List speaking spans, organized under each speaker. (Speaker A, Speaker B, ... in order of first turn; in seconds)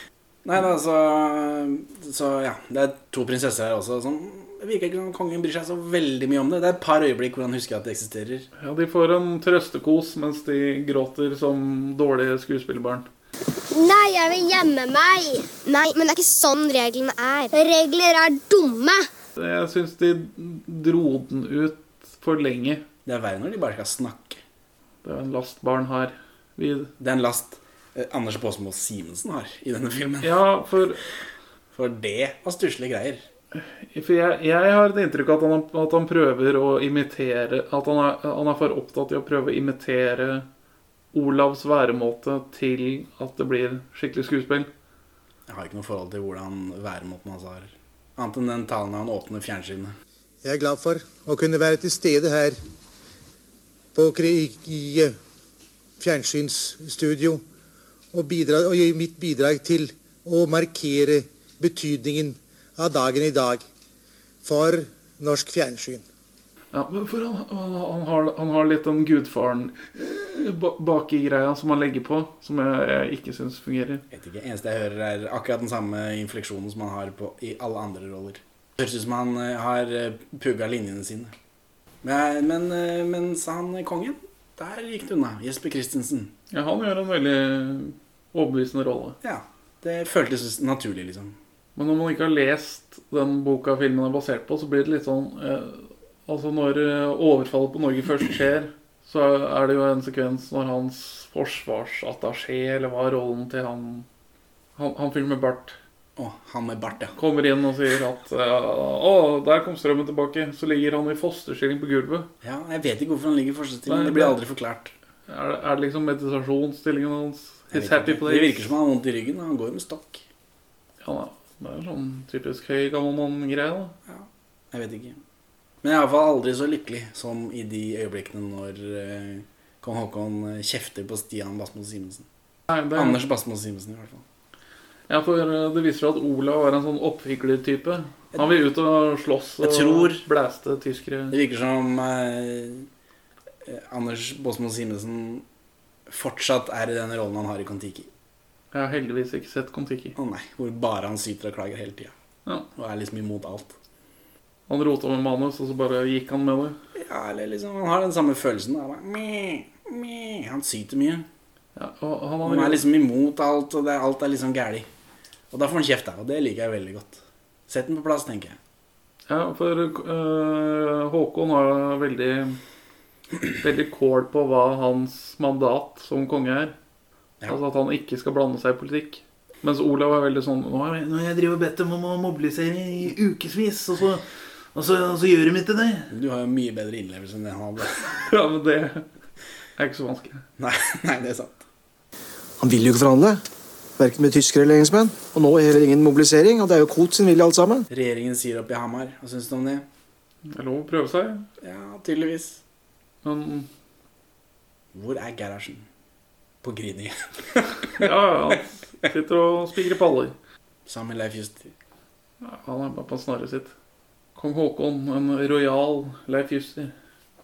Speaker A: 0.5-8.5, 23.1-24.4, 27.0-30.4, 31.7-33.2, 45.5-49.9, 74.1-81.3, 82.0-86.3, 89.2-91.4, 106.2-107.1, 112.4-114.9, 117.7-120.2, 124.1-125.2, 125.8-132.2, 132.9-134.2, 139.6-140.2, 141.3-142.9, 143.7-145.4, 146.1-148.1, 150.2-152.1, 152.8-153.8, 157.0-161.3, 162.4-164.9, 165.5-168.6, 186.1-188.1, 190.6-191.6, 197.9-199.9, 201.6-202.6, 204.9-205.8, 206.6-208.1, 210.9-211.7
Speaker B: 8.6-13.1, 19.4-22.8, 25.0-26.9, 30.2-31.0, 33.5-40.5, 41.1-44.7, 66.7-74.0, 86.5-89.2, 91.8-104.1, 104.8-105.8, 107.2-112.3, 113.9-114.4, 115.3-118.7, 121.0-124.0, 132.7-133.2, 135.1-141.4, 148.7-150.2, 154.7-156.8, 161.8-162.8, 169.3-172.6, 173.6-176.8, 177.5-184.2, 184.8-186.1, 188.0-189.1, 189.8-190.4, 200.5-201.5, 203.2-203.7, 207.9-210.3, 212.4-213.7, 214.4-216.9
Speaker C: 13.7-19.1
Speaker D: 50.4-52.6, 53.9-55.1, 56.0-57.4, 58.1-63.6, 64.4-66.0
Speaker E: 192.6-193.4, 194.0-197.8